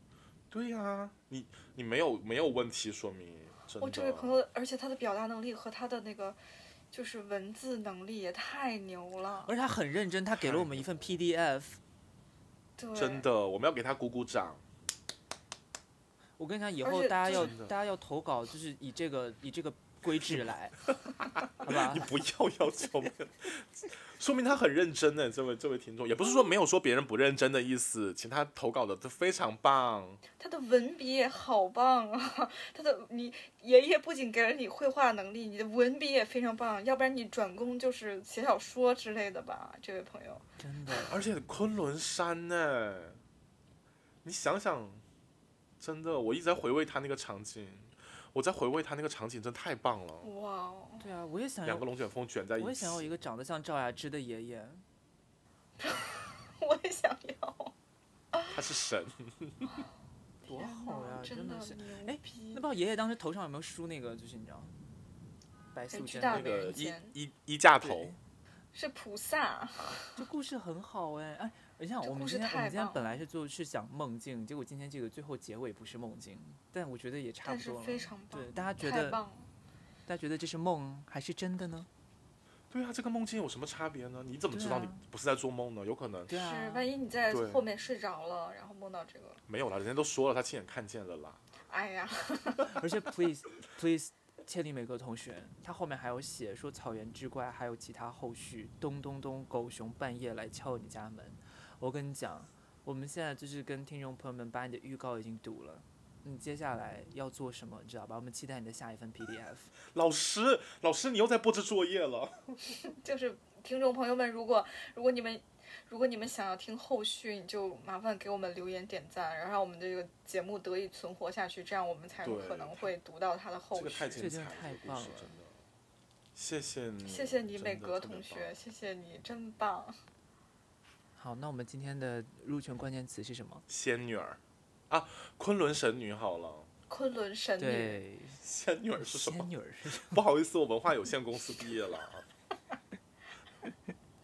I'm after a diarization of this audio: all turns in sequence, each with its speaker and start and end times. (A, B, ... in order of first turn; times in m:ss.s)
0:00.5-0:04.4 A
0:03.8-0:06.4 B
0:06.9-0:09.5 B
0:09.5-0:11.8 C
0:10.4-0:11.2 A
0:12.8-0:13.3 B
0:13.0-0:14.6 A
0:16.4-0:20.8 C
0:16.8-0:17.6 B
0:17.3-0:17.7 A
0:21.2-0:30.2 A
0:21.6-0:22.1 C
0:30.4-0:40.4 B
0:40.6-0:41.2 C
0:41.0-0:43.2 A
0:44.2-0:45.0 A
0:45.8-0:50.3 A
0:50.2-0:51.1 B
0:51.0-0:51.8 C
0:51.6-0:53.1 A
0:52.6-0:54.8 C
0:55.8-0:57.7 B
0:58.5-0:59.9 A
1:00.4-1:02.6 B
1:00.5-1:04.7 C
1:05.7-1:06.6 C
1:05.9-1:07.2 B
1:06.3-1:08.2 A
1:07.8-1:08.2 C
1:08.7-1:10.2 B
1:10.1-1:19.2 C
1:12.0-1:13.2 B
1:17.4-1:19.5 B
1:20.1-1:21.9 C
1:22.7-1:26.3 A
1:24.5-1:25.0 C
1:26.3-1:26.9 C
1:26.4-1:29.4 B
1:27.3-1:27.6 A
1:29.5-1:31.4 A
1:31.7-1:32.8 B
1:32.6-1:49.7 C
1:49.9-1:52.8 A
1:52.8-2:04.3 B
2:02.2-2:02.9 A
2:03.8-2:05.6 A
2:04.2-2:05.3 C
2:06.3-2:08.6 A
2:07.0-2:10.0 B
2:11.2-2:13.6 C
2:13.7-2:16.7 A
2:16.9-2:18.0 B
2:17.6-2:18.4 C
2:18.4-2:22.3 A
2:19.0-2:20.2 C